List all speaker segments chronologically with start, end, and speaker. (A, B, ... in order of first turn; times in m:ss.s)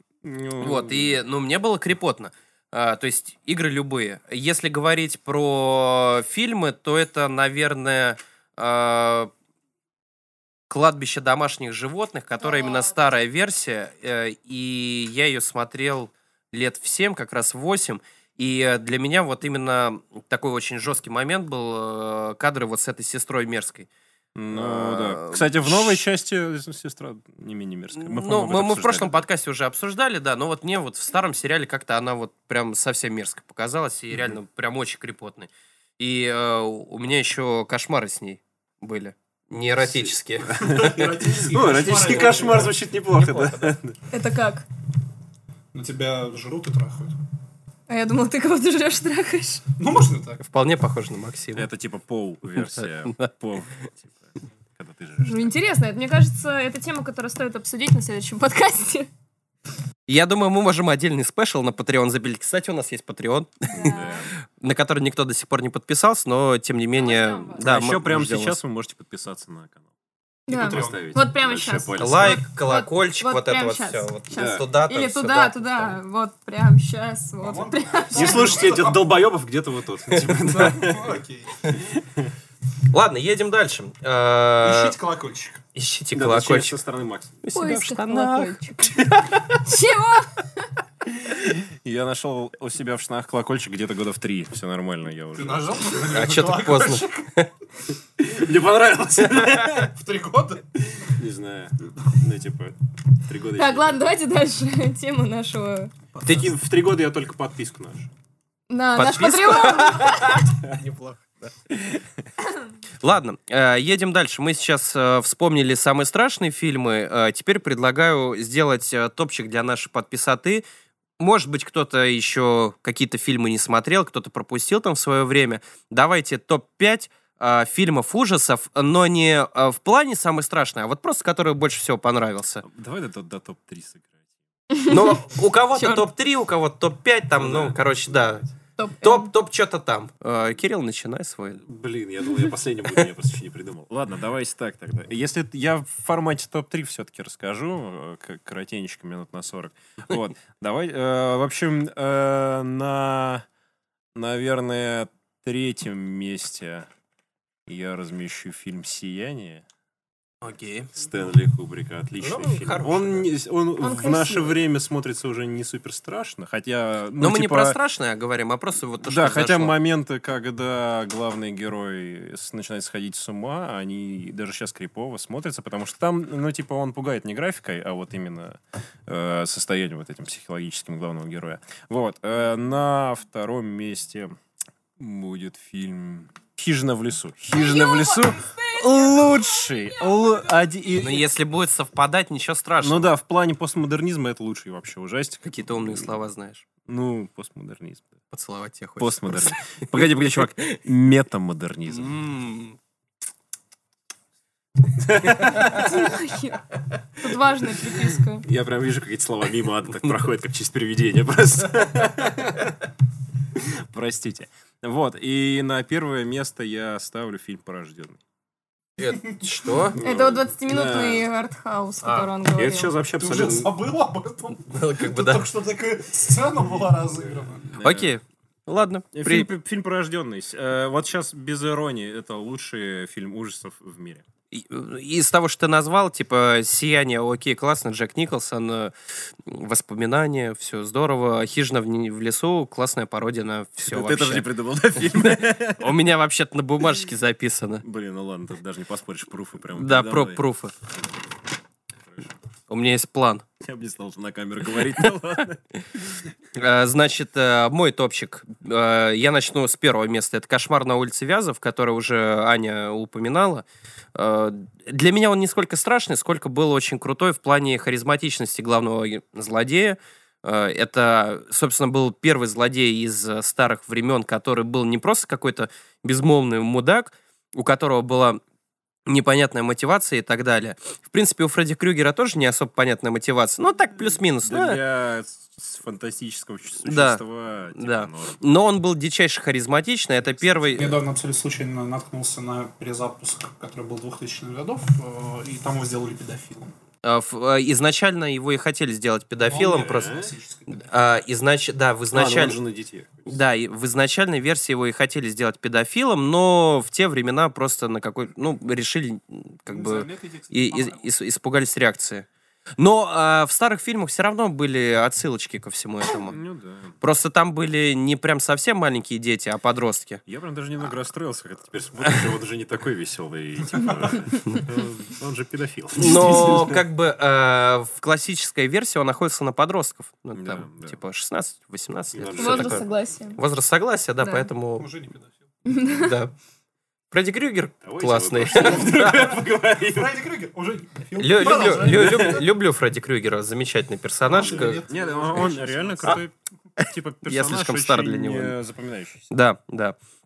0:00.2-0:01.2 A
0:00.6-0:09.3 B
0:10.7-0:23.9 B
0:24.4-0:29.2 A
0:24.5-0:26.0 B
0:28.0-0:41.2 B
0:39.8-0:44.0 A
0:40.6-0:42.8 C
0:41.8-0:43.8 B
0:44.1-0:44.6 D
0:45.7-0:47.2 C
0:47.9-0:49.6 D
0:49.8-0:50.4 C
0:50.4-0:51.7 B
0:51.6-0:55.6 A
0:52.6-0:53.3 B
0:55.2-0:59.1 D
1:00.1-1:04.0 B
1:03.7-1:04.3 D
1:03.7-1:04.3 A
1:04.6-1:08.6 B
1:07.0-1:07.6 D
1:07.6-1:09.8 A
1:10.5-1:18.6 D
1:10.5-1:11.2 C
1:10.5-1:12.4 A
1:12.0-1:16.0 B
1:14.3-1:14.6 A
1:17.4-1:19.1 C
1:18.1-1:21.1 A
1:20.3-1:21.6 C
1:22.9-1:25.0 B
1:24.6-1:25.6 C
1:25.8-1:26.8 B
1:26.1-1:27.4 A
1:27.4-1:29.4 B
1:27.5-1:29.0 D
1:29.6-1:30.6 D
1:31.2-1:35.8 A
1:35.4-1:37.3 C
1:36.0-1:37.5 B
1:38.2-1:39.9 A
1:39.8-1:40.6 C
1:40.9-1:44.1 A
1:43.5-1:45.9 D
1:46.1-1:46.5 C
1:46.2-1:48.1 A
1:48.7-1:50.4 D
1:49.0-1:51.5 B
1:51.7-1:52.0 A
1:53.0-2:00.6 B
2:01.2-2:12.6 B
2:12.6-2:14.2 A
2:14.7-2:15.2 D
2:14.9-2:18.4 B
2:15.8-2:16.0 D
2:17.4-2:18.5 A
2:18.8-2:19.3 D
2:19.0-2:21.6 B
2:21.6-2:33.4 A
2:34.2-2:36.9 A
2:37.7-2:39.6 A
2:40.4-2:40.9 B
2:40.9-2:47.8 A
2:42.2-2:43.3 B
2:43.8-2:44.6 D
2:47.2-2:49.8 B
2:49.0-3:04.4 A
3:05.0-3:11.2 A
3:07.5-3:11.0 D
3:11.0-3:13.1 B
3:12.8-3:16.2 A
3:15.4-3:16.6 B
3:16.8-3:18.2 A
3:18.3-3:20.8 B
3:19.0-3:22.2 A
3:21.9-3:22.8 B
3:25.0-3:25.9 A
3:25.7-3:26.6 D
3:27.2-3:28.4 D
3:28.4-3:32.7 A
3:33.6-3:38.2 A
3:39.0-3:40.0 B
3:40.0-3:41.3 A
3:40.0-3:43.0 D
3:42.0-3:42.3 B
3:42.6-3:43.7 A
3:43.2-3:47.7 C
3:44.7-3:45.4 B
3:47.6-3:48.1 A
3:47.8-3:49.5 B
3:49.1-3:54.2 A
3:54.5-3:58.9 B
3:59.4-4:04.5 B
4:03.8-4:05.9 A
4:05.0-4:07.8 B
4:07.8-4:10.4 A
4:09.8-4:10.7 B
4:12.0-4:12.4 A
4:12.7-4:13.4 B
4:13.6-4:16.2 A
4:16.6-4:38.4 B
4:39.1-4:44.8 B
4:44.4-4:48.4 A
4:46.8-4:47.2 B
4:47.7-4:51.0 B
4:50.7-4:56.7 C
4:57.0-5:02.6 B
4:59.4-5:00.8 C
4:59.5-5:00.3 A
5:02.1-5:03.4 A
5:03.3-5:12.3 B
5:09.7-5:11.1 C
5:12.8-5:16.4 B
5:16.2-5:16.9 A
5:17.0-5:20.2 B
5:20.3-5:26.8 A
5:26.0-5:34.9 B
5:30.4-5:31.0 A
5:32.1-5:33.0 A
5:32.4-5:33.4 D
5:34.2-5:34.5 D
5:34.8-5:35.5 C
5:35.7-5:36.2 D
5:35.9-5:36.3 B
5:37.1-5:39.4 B
5:37.8-5:40.1 A
5:38.6-5:42.5 C
5:41.2-5:44.8 B
5:41.4-5:42.4 A
5:44.3-5:46.2 C
5:44.3-5:49.2 A
5:47.2-5:48.6 B
5:49.3-5:50.0 B